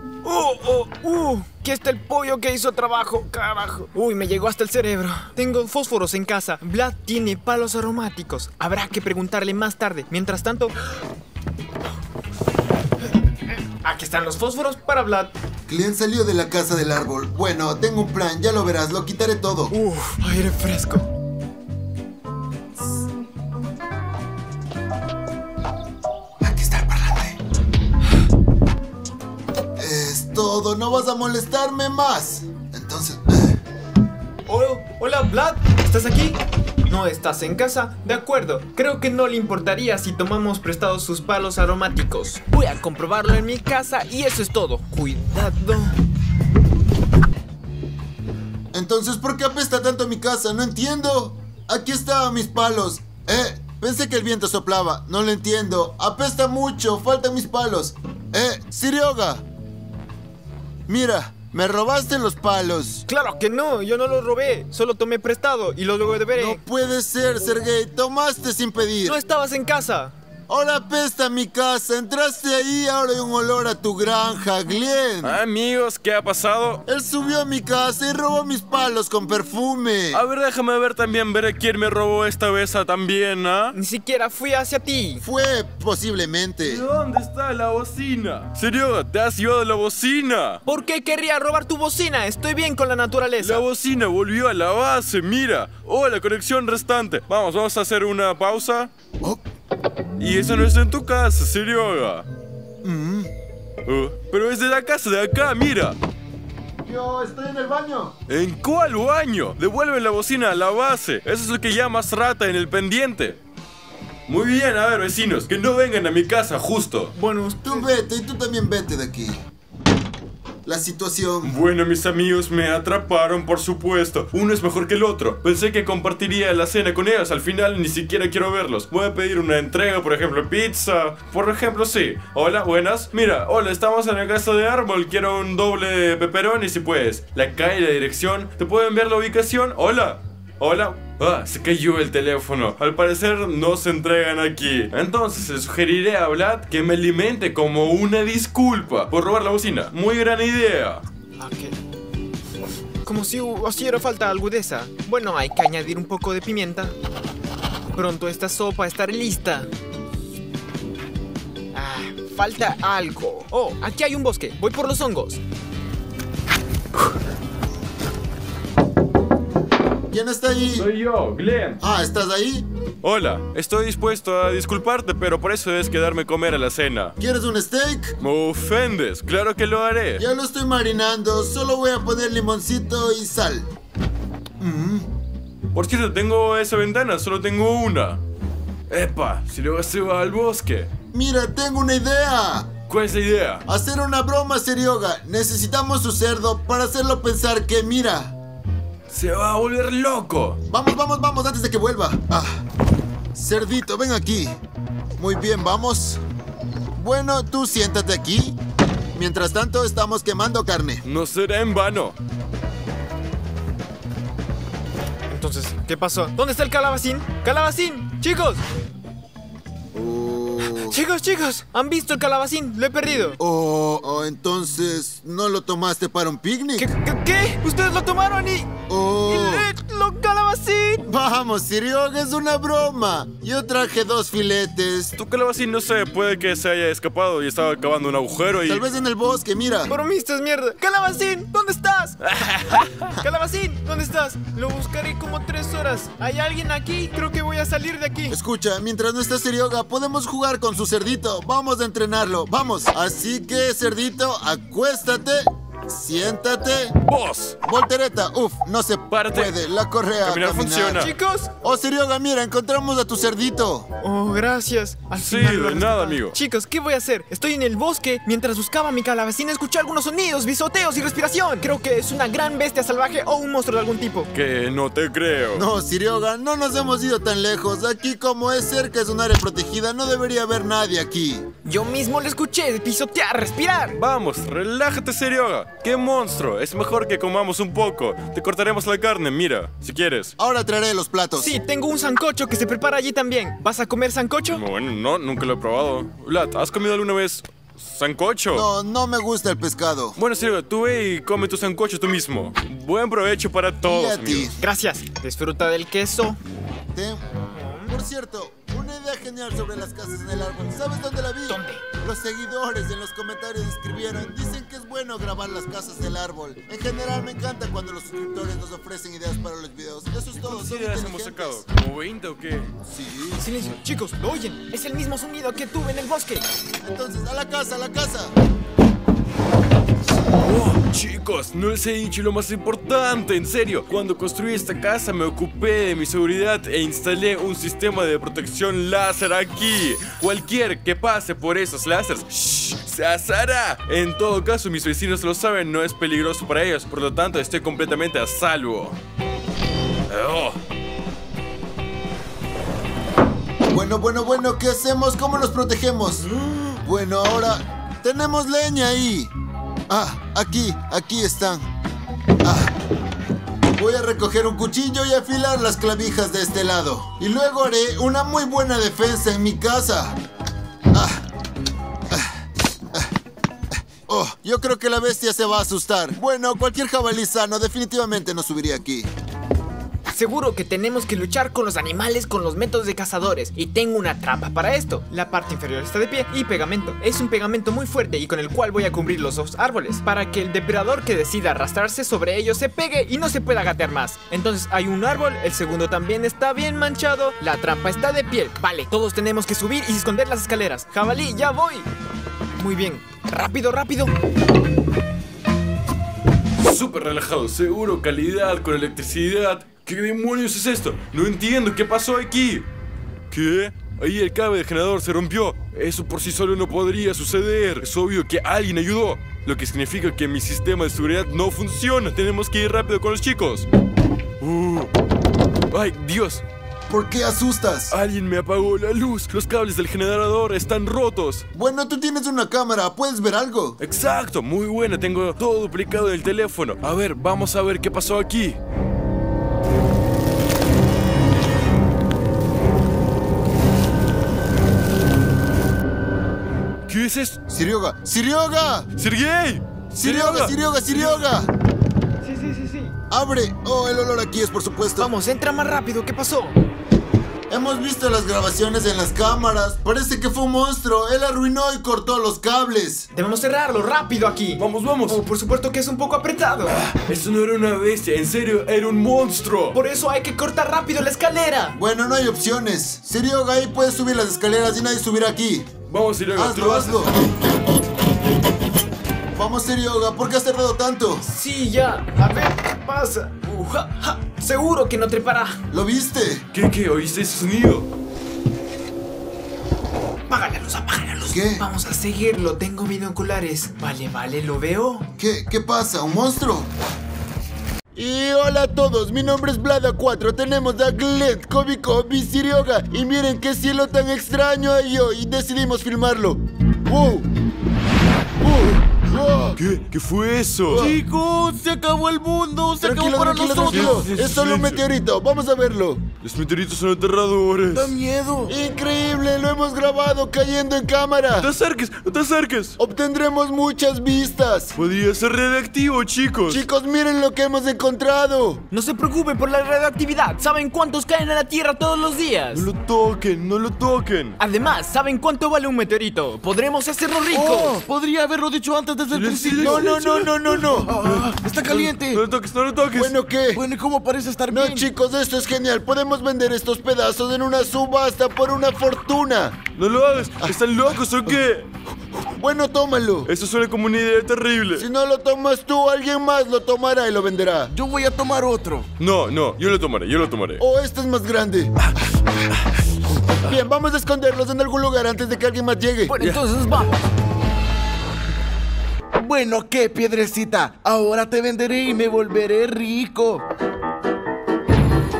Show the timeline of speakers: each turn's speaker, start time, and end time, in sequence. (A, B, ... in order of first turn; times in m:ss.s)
0:00.2-0:10.7 A
0:13.8-0:15.3 A
0:15.7-0:19.7 B
0:19.7-0:21.1 A
0:26.4-0:27.4 B
0:29.8-0:33.6 B
0:34.4-0:36.4 A
0:36.9-0:46.0 A
0:48.7-0:59.4 B
1:00.9-1:03.0 B
1:03.1-1:06.6 A
1:06.4-1:09.2 B
1:09.0-1:10.1 A
1:10.5-1:15.4 B
1:15.2-1:16.8 C
1:16.8-1:20.2 B
1:20.1-1:23.7 C
1:23.7-1:25.2 A
1:25.2-1:26.8 B
1:26.7-1:30.6 C
1:30.6-1:33.6 A
1:33.4-1:38.9 C
1:40.2-1:42.2 C
1:42.8-1:43.3 B
1:43.8-1:46.0 C
1:46.8-1:48.2 B
1:48.3-1:53.4 C
1:54.3-1:57.1 C
1:57.1-1:57.9 A
1:57.6-1:59.4 B
2:00.6-2:01.5 B
2:01.4-2:31.0 C
2:31.4-2:31.7 A
2:33.0-2:36.9 A
2:37.9-2:39.7 A
2:41.7-2:45.4 A
2:50.1-2:50.9 B
2:50.8-2:51.8 C
2:51.8-2:52.7 B
2:53.0-2:57.1 C
2:57.2-2:58.2 B
2:58.2-3:00.2 C
3:00.2-3:03.7 B
3:04.6-3:05.1 B
3:05.7-3:08.2 C
3:08.9-3:10.9 C
3:11.1-3:12.8 B
3:12.9-3:13.6 C
3:13.7-3:18.4 B
3:19.1-3:20.6 C
3:20.7-3:22.6 B
3:23.3-3:24.6 B
3:25.2-3:26.2 B
3:27.0-3:28.6 B
3:29.1-3:31.0 B
3:31.0-3:32.2 C
3:35.3-3:38.6 A
3:39.9-3:41.0 B
3:40.6-3:43.4 A
3:43.4-3:46.9 B
3:46.8-3:48.7 A
3:48.9-3:49.6 B
3:49.3-3:51.0 A
3:51.0-3:55.1 B
3:55.2-3:58.8 C
3:58.6-3:59.9 B
3:59.9-4:02.2 A
4:02.2-4:03.1 C
4:03.2-4:08.4 A
4:08.3-4:17.0 B
4:17.0-4:17.6 C
4:17.6-4:21.1 B
4:19.1-4:19.5 C
4:20.2-4:21.1 C
4:21.0-4:21.5 A
4:21.6-4:23.9 B
4:24.0-4:34.3 A
4:25.2-4:26.4 C
4:34.3-4:35.6 C
4:35.5-4:41.5 B
4:41.6-4:44.0 A
4:43.9-4:50.3 C
4:50.4-4:51.6 B
4:51.4-4:54.6 A
4:54.5-4:58.6 C
4:58.5-5:00.2 B
5:00.2-5:04.5 C
5:03.8-5:04.5 B
5:04.6-5:06.4 A
5:06.9-5:07.2 B
5:07.5-5:07.9 A
5:07.9-5:21.6 B
5:11.5-5:11.8 A
5:20.4-5:22.7 C
5:22.8-5:23.4 B
5:23.4-5:26.4 A
5:26.8-5:28.3 B
5:30.4-5:49.0 C
5:50.1-5:50.6 C
5:53.7-5:56.2 B
5:56.8-5:59.3 B
5:59.9-6:01.7 B
6:02.4-6:02.7 B
6:03.7-6:10.2 B
6:10.9-6:11.2 B
6:12.1-6:12.3 B
6:13.7-6:19.1 B
6:20.1-6:41.9 A
6:42.6-6:44.1 A
6:46.6-6:52.6 C
6:53.3-7:03.7 C
7:04.4-7:04.9 C
7:05.7-7:06.4 C
7:06.9-7:07.9 B
7:07.9-7:11.4 C
7:11.5-7:13.8 B
7:13.8-7:18.6 C
7:26.9-7:27.4 C
7:27.5-7:28.9 B
7:29.0-7:30.5 C
7:29.9-7:31.5 B
7:30.9-7:31.2 A
7:32.2-7:33.0 A
7:33.1-7:35.1 B
7:35.0-7:36.6 A
7:37.5-7:43.1 B
7:43.1-7:46.8 A
7:44.6-7:45.2 C
7:46.7-7:49.8 C
7:49.7-7:51.8 A
7:51.7-7:55.7 B
7:55.9-7:57.3 C
7:56.3-7:57.1 B
7:59.3-8:01.2 B
8:01.2-8:05.6 A
8:05.7-8:06.4 B
8:06.5-8:07.9 C
8:10.3-8:15.0 A
8:11.3-8:11.6 B
8:15.2-8:16.7 B
8:17.9-8:27.3 B
8:28.4-8:29.6 B
8:29.6-8:30.9 C
8:30.7-8:31.0 B
8:30.7-8:34.1 D
8:32.8-8:36.0 B
8:33.7-8:34.8 C
8:36.2-8:37.9 C
8:37.7-8:38.5 D
8:38.5-8:41.5 B
8:41.4-8:42.8 C
8:42.8-8:44.7 B
8:44.7-8:46.6 C
8:46.5-8:48.6 B
8:48.7-8:52.6 A
8:52.5-8:54.4 C
8:54.4-8:57.8 A
8:57.3-9:00.0 D
8:59.1-9:03.1 C
8:59.6-9:00.9 B
9:00.7-9:02.2 D
9:02.9-9:03.6 B
9:03.5-9:04.8 D
9:04.5-9:09.7 B
9:09.7-9:11.7 C
9:10.4-9:10.9 B
9:12.4-9:13.3 B
9:13.2-9:14.8 C
9:14.8-9:17.7 B
9:17.7-9:18.9 D
9:19.0-9:20.6 C
9:20.6-9:21.7 B
9:23.4-9:26.1 B
9:26.1-9:27.0 A
9:29.1-9:33.4 D